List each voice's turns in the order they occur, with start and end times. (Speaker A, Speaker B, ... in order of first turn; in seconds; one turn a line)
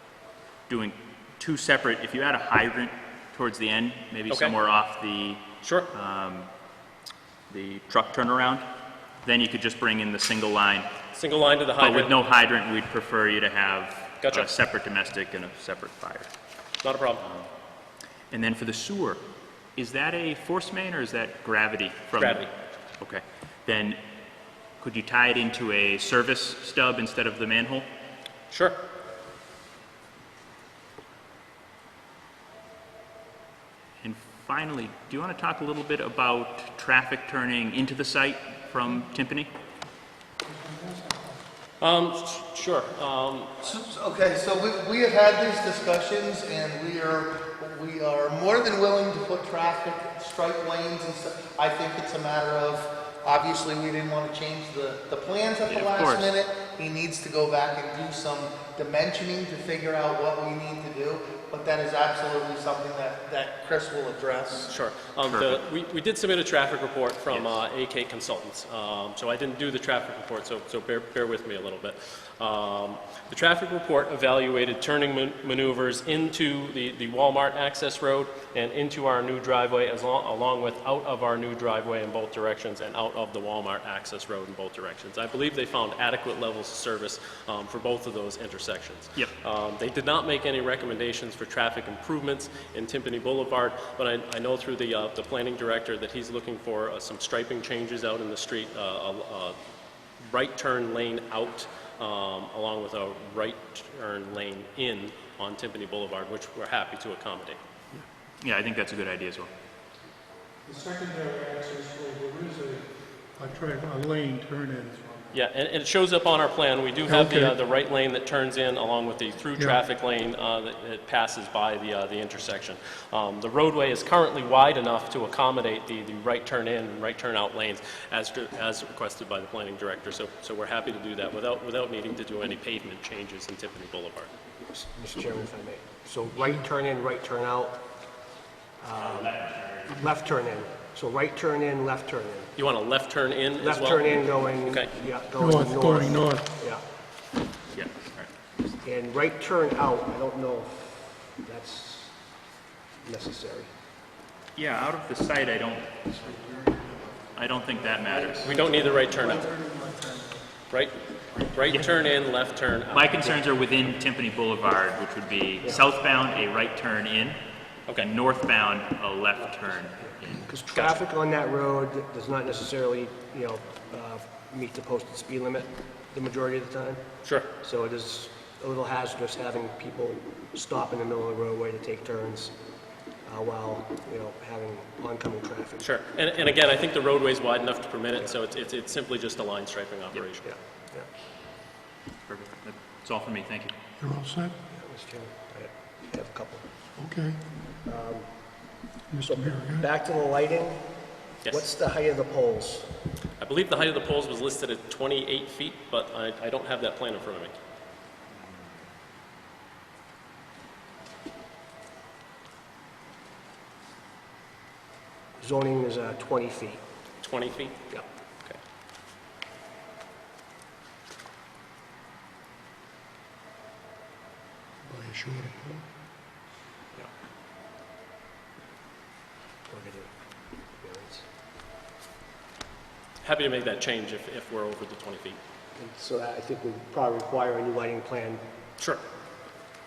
Speaker A: 0.7-6.5
Speaker B: 5.6-5.9
Speaker A: 7.5-8.7
Speaker A: 9.2-10.9
Speaker B: 11.1-12.2
Speaker A: 11.8-16.3
Speaker B: 14.2-14.5
Speaker B: 16.8-17.2
Speaker A: 17.2-17.5
Speaker A: 18.3-19.2
Speaker A: 19.8-22.5
Speaker B: 22.2-22.5
Speaker A: 23.0-24.0
Speaker A: 24.8-27.9
Speaker B: 28.5-28.8
Speaker A: 34.0-39.5
Speaker C: 40.5-41.4
Speaker B: 41.8-43.6
Speaker D: 43.6-64.7
Speaker A: 55.7-56.4
Speaker B: 64.7-99.6
Speaker A: 65.3-65.6
Speaker A: 67.3-67.6
Speaker B: 100.2-107.6
Speaker A: 108.4-109.5
Speaker C: 110.7-115.2
Speaker B: 115.3-134.3
Speaker C: 117.1-117.6
Speaker E: 134.7-137.8
Speaker E: 138.8-142.5
Speaker A: 138.9-140.1
Speaker B: 142.6-144.9
Speaker E: 143.6-146.8
Speaker C: 145.4-146.5
Speaker A: 147.7-148.3
Speaker E: 148.8-152.1
Speaker E: 153.0-153.7
Speaker A: 154.6-155.9
Speaker A: 157.3-158.6
Speaker B: 158.4-159.6
Speaker C: 159.6-160.1
Speaker B: 160.7-163.4
Speaker A: 161.7-162.0
Speaker A: 162.9-167.4
Speaker A: 167.9-170.4
Speaker E: 170.3-182.6
Speaker B: 170.7-171.0
Speaker B: 177.2-177.5
Speaker E: 183.2-185.9
Speaker B: 185.8-190.5
Speaker E: 190.4-191.1
Speaker A: 192.3-193.8
Speaker C: 194.0-194.5
Speaker E: 194.7-196.7
Speaker C: 197.0-197.4
Speaker E: 197.8-198.4
Speaker C: 199.1-199.9
Speaker E: 199.2-200.8
Speaker E: 201.5-202.9
Speaker B: 203.4-207.5
Speaker E: 215.4-216.8
Speaker B: 217.2-217.8
Speaker C: 224.9-225.8
Speaker E: 229.7-230.1
Speaker E: 230.8-231.2
Speaker B: 233.2-235.4
Speaker E: 235.8-238.4